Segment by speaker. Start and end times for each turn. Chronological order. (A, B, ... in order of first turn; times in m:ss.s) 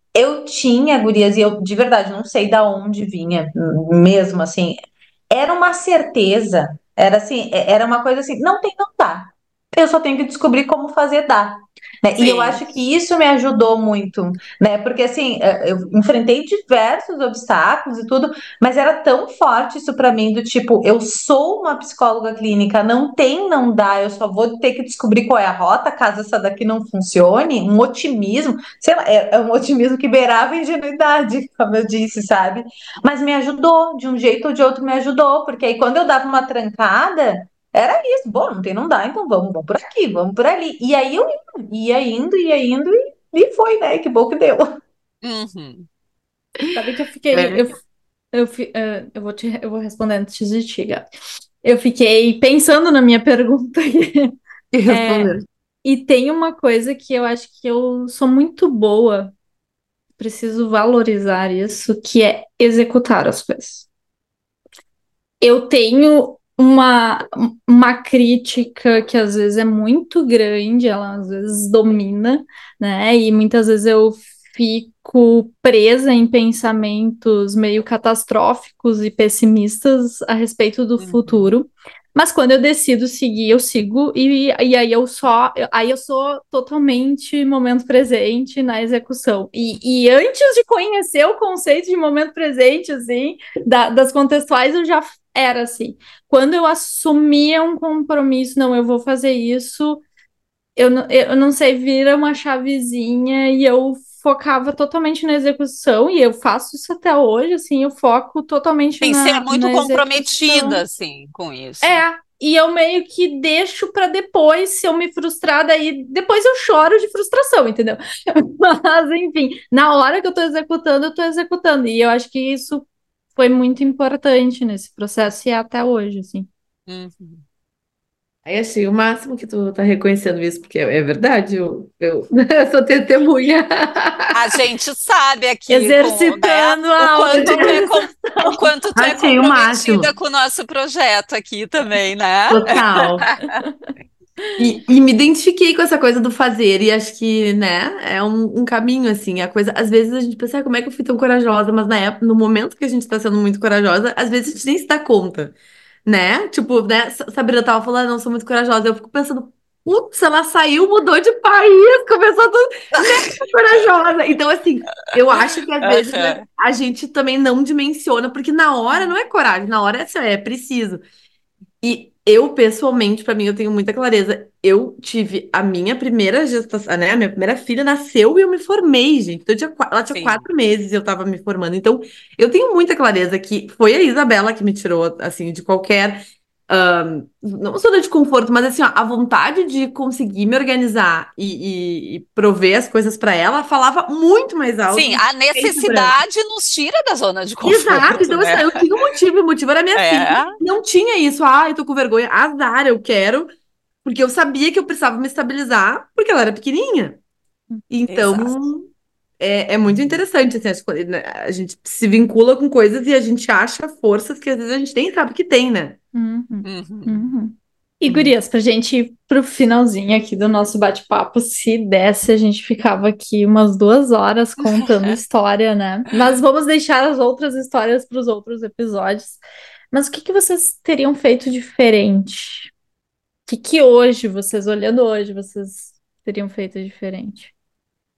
0:00.1-0:04.8 A
0:05.3-0:44.7 A
0:12.2-0:12.6 B
0:45.2-0:45.9 B
0:46.7-0:47.8 C
0:48.3-0:51.1 C
0:51.6-0:54.3 C
0:54.7-0:55.5 D
0:54.9-0:55.3 C
0:55.8-0:59.3 C
1:00.2-1:03.8 C
1:05.4-1:40.0 C
1:21.0-1:21.5 B
1:40.8-1:50.8 C
1:49.0-1:52.0 B
1:51.8-2:06.5 C
2:06.9-2:07.4 B
2:08.4-2:14.6 D
2:14.3-2:23.4 B
2:15.7-2:18.0 C
2:17.3-2:17.8 A
2:19.0-2:20.1 D
2:22.5-2:23.3 A
2:23.4-2:23.9 C
2:24.6-2:35.5 D
2:36.0-2:51.0 D
2:43.0-2:43.2 B
2:45.8-2:46.4 B
2:51.8-3:16.2 D
3:00.1-3:00.4 B
3:14.9-3:19.0 B
3:17.6-3:23.5 D
3:19.9-3:20.5 B
3:24.0-3:27.2 D
3:27.9-3:36.0 D
3:28.1-3:28.5 B
3:36.1-3:49.4 C
3:36.6-3:37.3 B
3:44.6-3:45.2 B
3:49.9-3:52.7 C
3:53.5-3:57.5 C